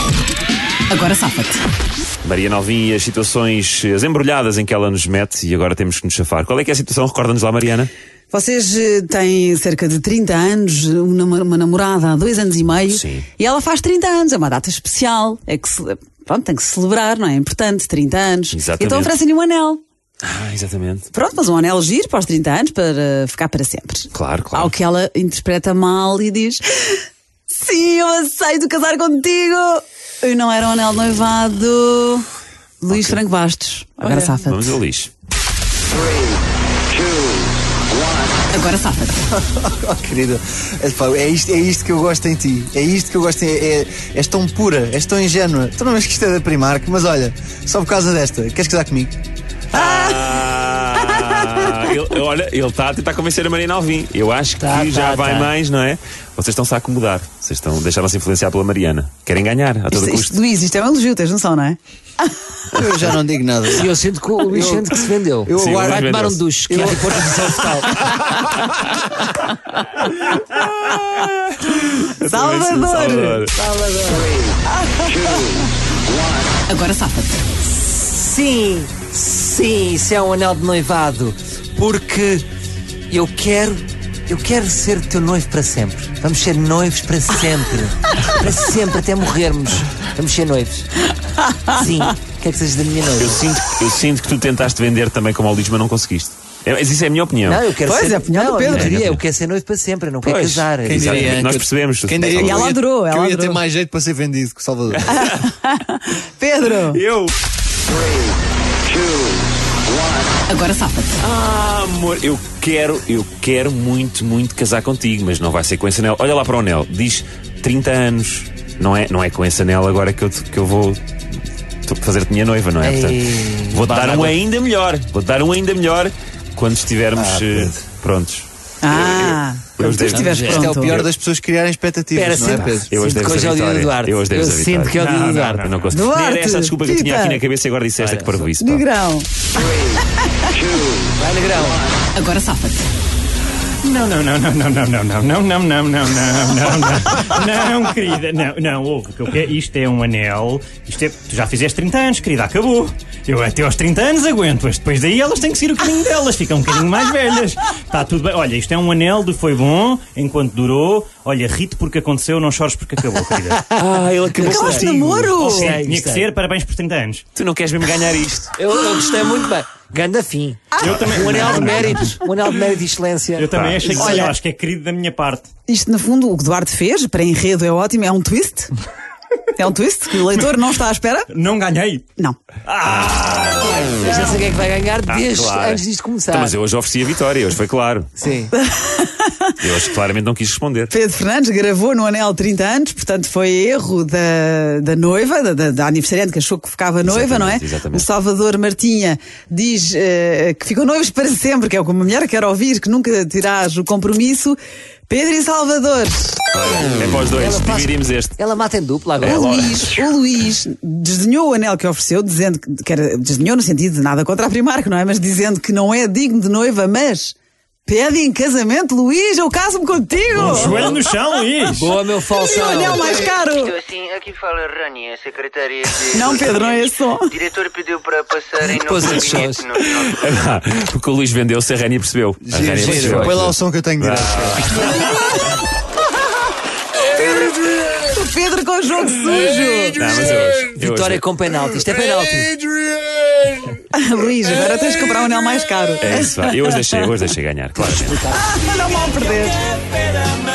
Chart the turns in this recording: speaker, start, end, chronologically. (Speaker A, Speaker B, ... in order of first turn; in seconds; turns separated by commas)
Speaker A: 0.9-1.6, Speaker B: 2.2-7.9, Speaker A: 8.3-19.8, Speaker B: 12.9-13.3, Speaker B: 18.5-19.1, Speaker B: 20.2-21.1, Speaker A: 21.1-32.3, Speaker B: 24.1-24.7, Speaker A: 32.8-34.8, Speaker B: 32.9-33.2, Speaker B: 34.0-35.1, Speaker A: 38.5-39.2, Speaker C: 39.3-49.2, Speaker B: 49.7-60.4, Speaker A: 49.7-50.4, Speaker D: 54.6-55.5, Speaker A: 59.9-62.4, Speaker C: 62.7-63.9, Speaker D: 63.7-68.2, Speaker C: 64.5-64.9, Speaker C: 65.5-66.0, Speaker B: 65.5-66.5, Speaker C: 66.7-67.1, Speaker B: 70.8-73.6, Speaker A: 72.2-73.5, Speaker D: 73.6-74.3, Speaker A: 74.8-75.5, Speaker A: 76.7-77.4, Speaker D: 77.8-82.4, Speaker D: 83.1-90.9, Speaker A: 91.4-91.8, Speaker D: 91.7-93.4, Speaker B: 93.2-97.6, Speaker D: 97.4-101.4, Speaker A: 97.9-99.1, Speaker B: 98.7-99.2, Speaker B: 100.2-102.7, Speaker C: 100.8-105.2, Speaker A: 102.4-103.6, Speaker B: 105.1-105.5, Speaker A: 105.2-107.0, Speaker B: 106.8-107.3, Speaker A: 110.5-111.2, Speaker B: 111.2-121.0, Speaker B: 121.9-130.5, Speaker D: 122.8-124.4, Speaker C: 127.1-127.7, Speaker A: 128.8-131.1, Speaker D: 130.1-131.0, Speaker C: 130.4-132.9, Speaker D: 132.1-135.7, Speaker B: 132.9-135.0, Speaker E: 135.0-135.7, Speaker B: 135.6-138.8, Speaker A: 135.9-137.4, Speaker D: 138.0-138.5, Speaker A: 138.6-139.9, Speaker D: 141.1-141.9, Speaker A: 142.1-142.9, Speaker E: 143.8-163.7, Speaker D: 163.7-164.9, Speaker B: 163.8-165.5, Speaker A: 164.4-165.8, Speaker E: 165.4-167.2, Speaker D: 165.5-166.2, Speaker B: 167.3-168.5, Speaker D: 168.6-173.5, Speaker A: 170.7-171.7, Speaker E: 170.8-172.2, Speaker E: 173.3-175.5, Speaker B: 173.5-173.9, Speaker A: 173.9-174.3, Speaker A: 175.7-178.7, Speaker A: 179.5-181.3, Speaker E: 181.3-182.0, Speaker E: 182.6-184.1, Speaker D: 183.9-186.6, Speaker B: 185.1-188.1, Speaker D: 188.2-188.5, Speaker A: 188.5-189.5, Speaker B: 189.6-190.9, Speaker A: 190.9-206.4, Speaker B: 197.0-198.1, Speaker B: 206.5-208.3, Speaker D: 207.3-209.9, Speaker B: 209.2-209.7, Speaker A: 209.2-221.0, Speaker E: 220.3-221.9, Speaker D: 221.7-223.2, Speaker A: 222.4-223.8, Speaker F: 223.7-226.1, Speaker A: 226.1-227.4, Speaker F: 227.3-229.6, Speaker D: 228.6-229.7, Speaker B: 229.7-235.0, Speaker C: 232.5-234.8, Speaker A: 237.1-240.3, Speaker B: 239.9-241.2, Speaker D: 240.7-242.6, Speaker A: 243.9-247.1, Speaker B: 246.0-248.2, Speaker D: 247.8-248.5, Speaker A: 248.3-249.7